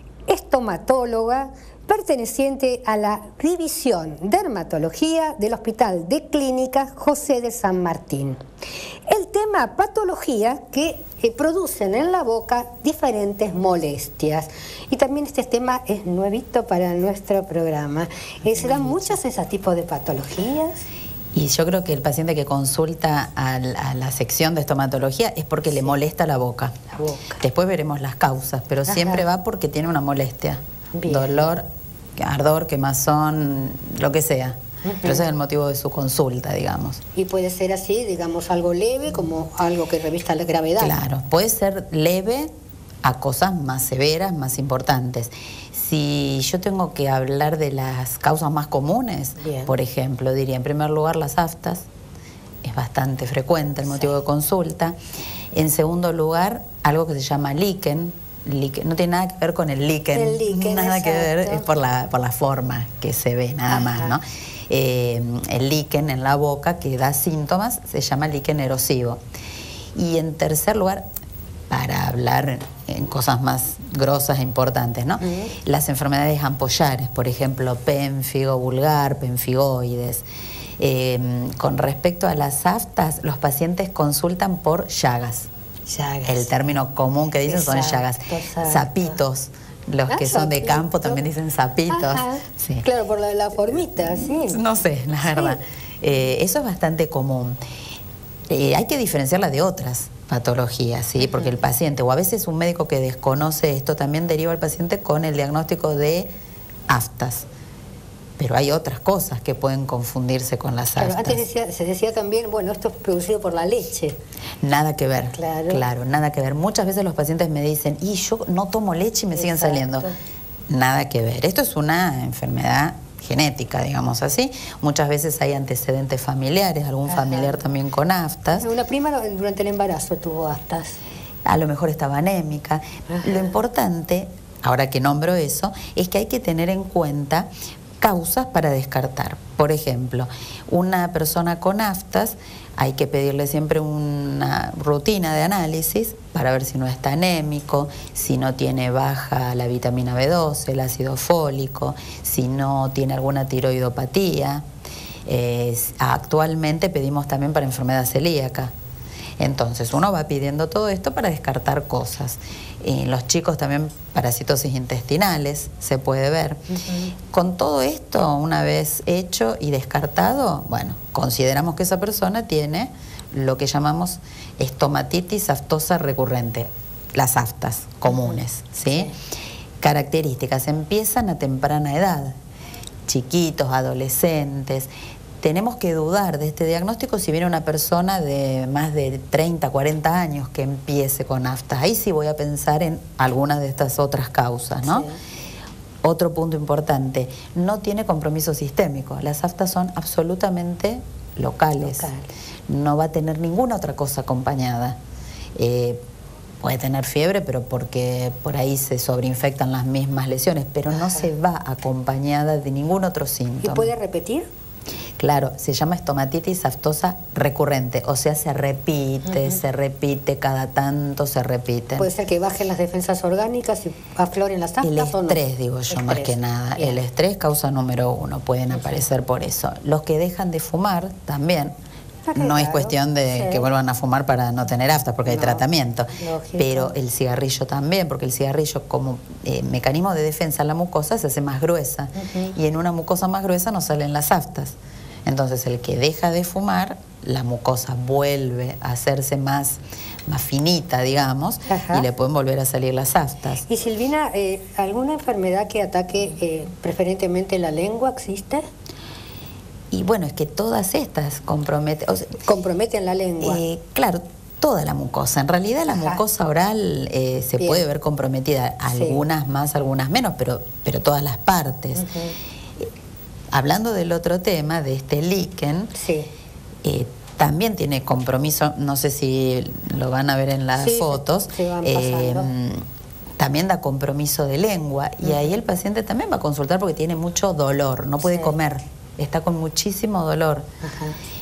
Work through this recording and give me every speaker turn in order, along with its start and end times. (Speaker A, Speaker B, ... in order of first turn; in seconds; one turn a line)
Speaker A: 0.3-8.4
Speaker A: 9.1-20.8
Speaker B: 18.4-19.2
Speaker B: 21.3-26.8
Speaker A: 25.7-25.9
Speaker A: 26.9-27.4
Speaker B: 27.4-31.6
Speaker A: 28.9-29.2
Speaker A: 30.9-31.5
Speaker B: 32.2-37.0
Speaker A: 34.8-35.2
Speaker A: 37.1-41.0
Speaker B: 40.8-42.5
Speaker B: 43.0-51.8
Speaker A: 49.4-49.7
Speaker B: 52.6-55.0
Speaker B: 55.5-69.2
Speaker A: 60.1-61.7
Speaker A: 63.7-64.2
Speaker B: 70.0-71.0
Speaker B: 71.7-80.2
Speaker A: 75.2-75.5
Speaker B: 80.8-85.5
Speaker A: 85.9-86.5
Speaker B: 86.2-92.8
Speaker A: 87.5-89.2
Speaker A: 90.1-91.2
Speaker A: 91.9-94.6
Speaker B: 94.5-97.6
Speaker A: 95.2-95.6
Speaker B: 98.5-106.3
Speaker A: 101.2-101.5
Speaker B: 106.9-107.5
Speaker B: 108.4-111.4
Speaker A: 111.0-114.2
Speaker B: 114.6-120.1
Speaker A: 115.3-115.8
Speaker A: 119.3-120.1
Speaker B: 120.7-128.7
Speaker A: 127.1-127.5
Speaker A: 128.5-131.0
Speaker B: 131.4-137.5
Speaker A: 133.1-133.4
Speaker B: 138.0-154.6
Speaker B: 155.2-158.7
Speaker B: 159.4-166.6
Speaker A: 166.7-167.1
Speaker B: 167.3-179.1
Speaker A: 178.1-179.1
Speaker B: 179.8-182.3
Speaker B: 183.1-184.9
Speaker B: 185.4-195.1
Speaker A: 194.8-195.2
Speaker B: 196.0-202.1
Speaker A: 201.8-202.3
Speaker B: 202.7-205.0
Speaker B: 205.6-206.0
Speaker B: 206.6-213.9
Speaker A: 210.9-211.2
Speaker A: 213.6-214.4
Speaker B: 215.2-222.1
Speaker A: 222.0-227.0
Speaker B: 224.8-231.7
Speaker A: 228.7-229.0
Speaker A: 232.3-233.7
Speaker B: 232.3-244.7
Speaker A: 235.2-235.6
Speaker A: 236.1-236.9
Speaker A: 242.2-242.6
Speaker B: 245.2-253.6
Speaker A: 251.7-252.1
Speaker A: 253.7-258.6
Speaker B: 259.9-262.4
Speaker A: 262.4-263.6
Speaker B: 263.4-272.0
Speaker A: 265.9-266.2
Speaker A: 267.6-267.8
Speaker A: 268.9-269.2
Speaker A: 271.9-272.3
Speaker B: 273.5-275.9
Speaker A: 275.9-276.3
Speaker B: 276.8-282.8
Speaker A: 280.8-282.5
Speaker B: 283.4-290.6
Speaker A: 285.2-285.5
Speaker A: 288.2-288.5
Speaker A: 290.8-291.2